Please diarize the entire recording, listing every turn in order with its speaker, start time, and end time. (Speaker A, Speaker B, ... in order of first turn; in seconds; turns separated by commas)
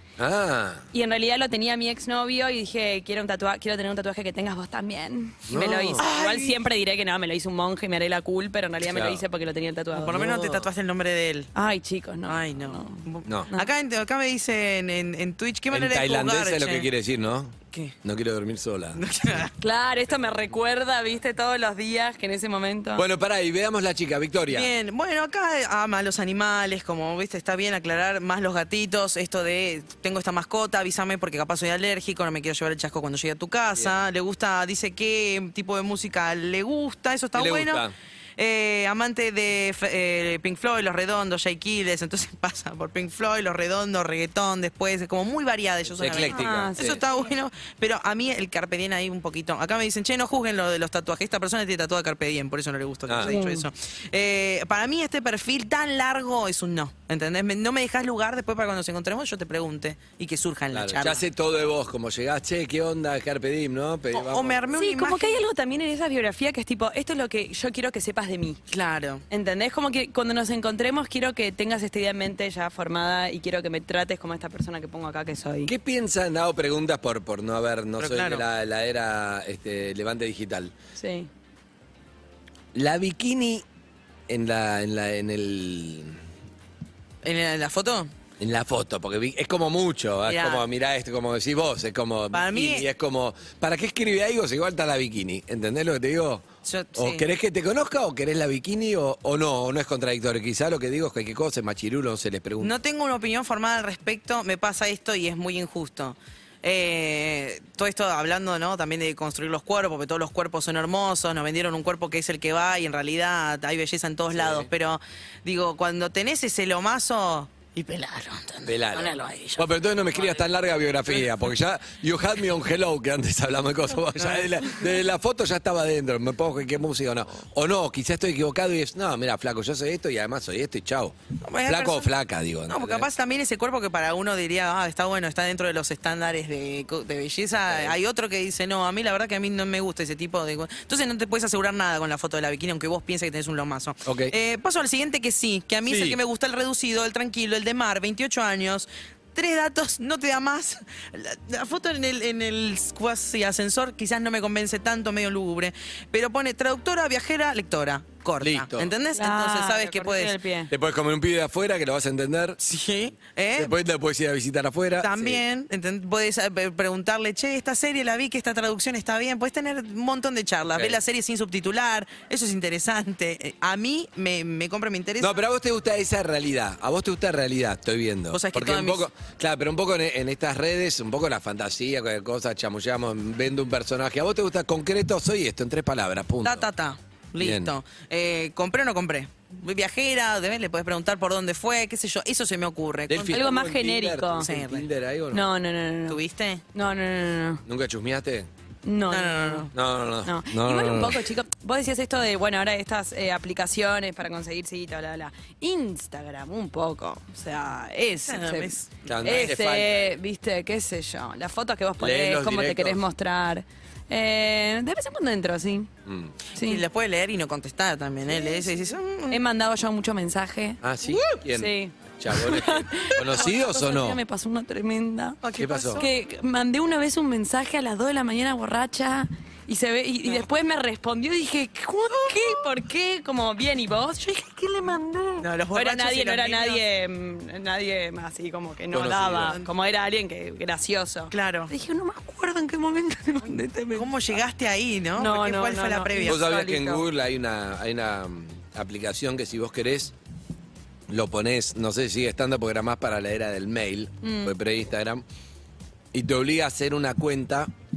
Speaker A: 0.2-0.9, Speaker B: 0.9-10.2, Speaker A: 5.5-6.1, Speaker C: 6.0-6.5, Speaker A: 8.8-9.2, Speaker C: 9.9-11.5, Speaker A: 10.1-10.7, Speaker B: 11.5-13.7, Speaker C: 12.2-16.9, Speaker A: 15.7-19.0, Speaker C: 18.9-19.5, Speaker B: 19.6-23.0, Speaker A: 22.9-24.7, Speaker C: 24.5-37.9, Speaker A: 37.3-37.9, Speaker C: 38.4-61.2, Speaker A: 45.9-47.0, Speaker B: 46.0-47.2, Speaker A: 53.1-53.3, Speaker B: 53.2-53.7, Speaker A: 60.7-64.8, Speaker C: 64.1-65.4, Speaker B: 64.8-68.6, Speaker C: 68.7-69.2, Speaker B: 69.3-75.7, Speaker A: 75.7-80.7, Speaker C: 78.0-78.5, Speaker B: 81.0-81.3, Speaker A: 82.7-83.6, Speaker A: 84.3-86.2, Speaker C: 87.2-88.1, Speaker A: 88.4-96.4, Speaker C: 90.2-90.6, Speaker C: 92.3-92.9, Speaker C: 96.6-97.3, Speaker A: 96.9-102.7, Speaker C: 102.6-120.5, Speaker A: 114.3-114.7, Speaker A: 118.6-131.1, Speaker C: 124.1-124.9, Speaker C: 131.4-132.1, Speaker A: 131.7-133.1, Speaker C: 132.7-160.3, Speaker A: 137.7-137.9, Speaker A: 144.0-144.3, Speaker A: 145.8-146.2, Speaker A: 158.4-158.9, Speaker B: 159.1-160.7, Speaker A: 160.7-162.6, Speaker C: 162.6-163.7, Speaker A: 163.6-165.4, Speaker C: 165.0-175.3, Speaker A: 170.7-171.0, Speaker A: 175.2-186.6, Speaker C: 178.3-179.1, Speaker C: 186.4-193.5, Speaker A: 187.4-187.7, Speaker A: 193.1-195.5, Speaker B: 193.3-194.5, Speaker C: 194.4-194.9, Speaker B: 195.3-196.2, Speaker C: 196.1-196.6, Speaker B: 196.7-197.6, Speaker A: 197.7-198.5, Speaker B: 198.8-199.7, Speaker C: 199.1-199.7, Speaker A: 199.7-201.2, Speaker B: 200.2-215.9, Speaker C: 208.2-209.6, Speaker A: 209.1-210.0, Speaker A: 212.0-213.0, Speaker A: 216.1-216.3, Speaker B: 216.5-216.8, Speaker C: 216.6-219.4, Speaker B: 218.3-225.4, Speaker A: 220.8-224.2, Speaker C: 225.4-226.1, Speaker A: 225.6-226.1, Speaker B: 225.9-244.1, Speaker C: 235.4-236.8, Speaker A: 238.9-239.6, Speaker C: 239.4-239.7, Speaker C: 241.3-241.7, Speaker C: 243.9-246.6, Speaker B: 245.2-247.0, Speaker A: 246.2-250.1, Speaker A: 251.1-255.2, Speaker B: 254.2-254.5, Speaker A: 256.1-257.7